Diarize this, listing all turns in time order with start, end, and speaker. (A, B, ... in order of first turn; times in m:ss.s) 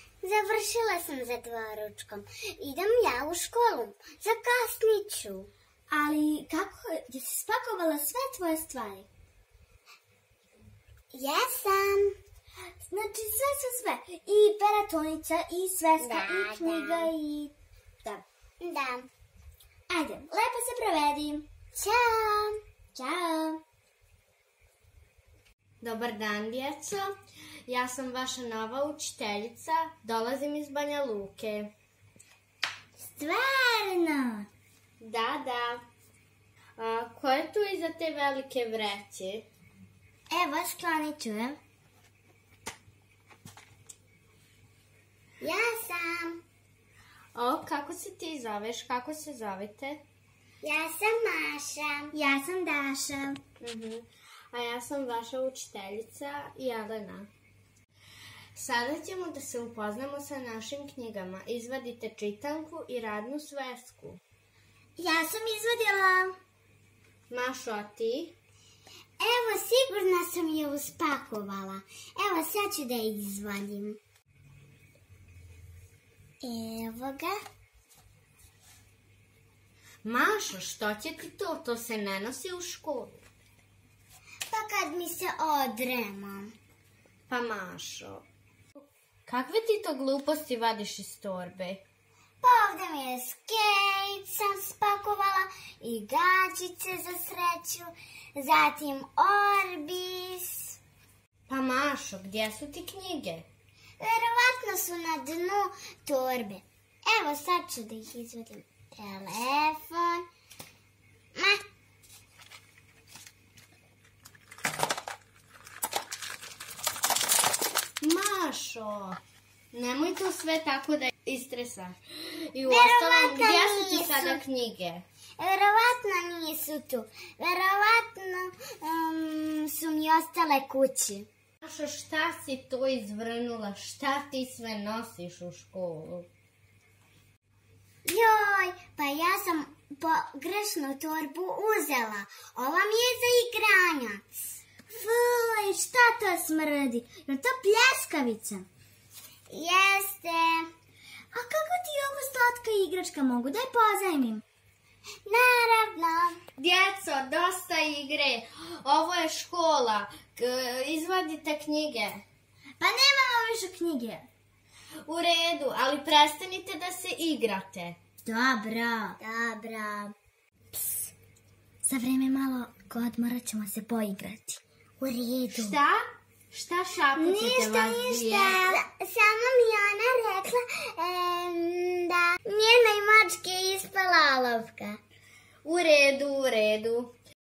0:00.2-0:05.5 A
0:05.9-0:09.1 B
0:11.1-0:12.2 A
0:12.9-0:17.5 B
0:16.0-0:17.1 A
0:18.6-0:19.1 A
0:19.9-0:21.5 B
0:21.7-0:22.6 A
0:22.9-0:23.6 B
0:25.8-0:27.1 C
0:27.7-0:31.7 C
0:33.1-0:34.4 B
0:35.0-0:35.8 C
0:36.8-0:39.4 C
0:40.3-0:41.5 B
0:45.4-0:46.4 A
0:47.3-0:50.0 C
0:50.6-0:52.1 A
0:52.1-0:53.4 B
0:53.6-0:57.3 C
0:58.5-1:04.2 C
1:05.0-1:06.3 B
1:07.3-1:08.4 C
1:09.2-1:14.0 A
1:16.4-1:17.3 A
1:20.0-1:23.2 C
1:24.5-1:26.5 A
1:27.3-1:28.2 C
1:29.3-1:31.8 C
1:32.4-1:40.8 A
1:41.5-1:43.4 C
1:44.0-1:50.2 A
1:58.0-1:59.2 C
1:59.7-2:05.0 C
2:02.6-2:04.4 A
2:05.4-2:11.3 A
2:11.6-2:16.3 C
2:18.0-2:24.2 A
2:24.9-2:28.7 B
2:29.5-2:30.7 A
2:31.3-2:34.4 B
2:35.2-2:36.4 A
2:36.6-2:42.2 C
2:42.8-2:44.3 B
2:45.1-2:48.0 C
2:48.2-2:49.2 B
2:49.2-2:50.1 A
2:51.8-2:54.6 B
2:55.0-2:55.7 A
2:55.5-2:58.7 C
2:57.2-2:58.8 B
2:57.7-2:58.0 A
2:58.6-3:05.0 A
3:05.6-3:07.1 C